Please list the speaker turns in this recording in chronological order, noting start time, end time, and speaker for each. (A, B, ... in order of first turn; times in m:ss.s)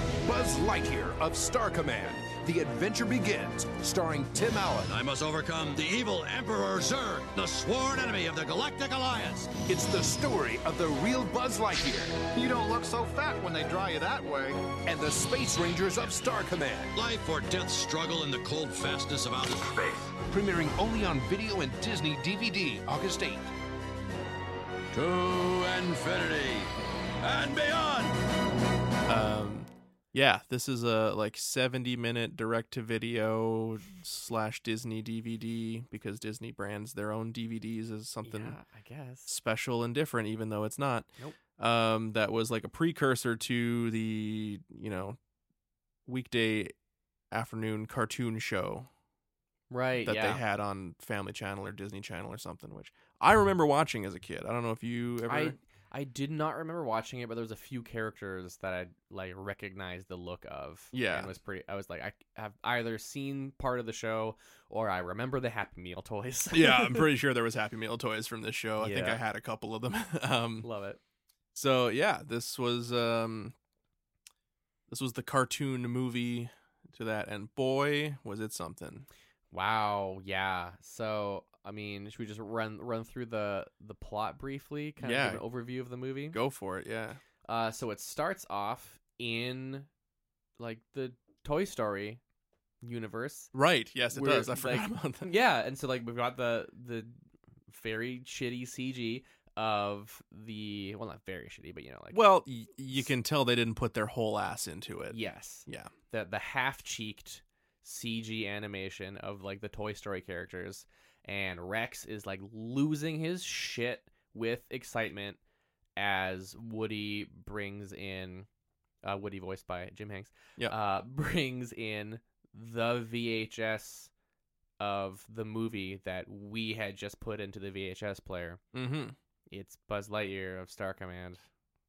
0:00.2-0:04.9 A
0:04.9-0:09.5 B
0:09.6-0:12.2 A
0:12.3-0:14.7 C
0:14.8-0:16.9 A
0:17.0-0:20.1 B
0:20.3-0:23.5 A
0:24.9-0:28.2 B
0:29.1-0:38.6 D
0:38.2-0:39.3 E
0:39.3-0:45.2 D
0:46.1-0:46.7 D
0:47.3-0:48.9 D
0:49.7-0:50.4 E
0:50.0-0:55.6 D
0:55.3-1:07.1 E
1:00.9-1:01.3 D
1:06.5-1:10.7 D
1:08.8-1:09.2 E
1:10.6-1:11.0 E
1:11.6-1:13.6 D
1:14.9-1:19.1 D
1:19.5-1:26.4 E
1:25.0-1:25.4 D
1:26.3-1:27.2 D
1:27.4-1:29.9 E
1:30.6-1:32.2 E
1:32.8-1:33.5 E
1:33.5-1:35.3 D
1:34.1-1:37.2 E
1:37.7-1:42.2 E
1:42.1-1:45.9 D
1:45.1-1:55.4 E
1:56.0-1:58.5 E
1:59.0-2:04.1 E
2:04.8-2:08.6 E
2:08.7-2:09.2 D
2:09.5-2:11.4 E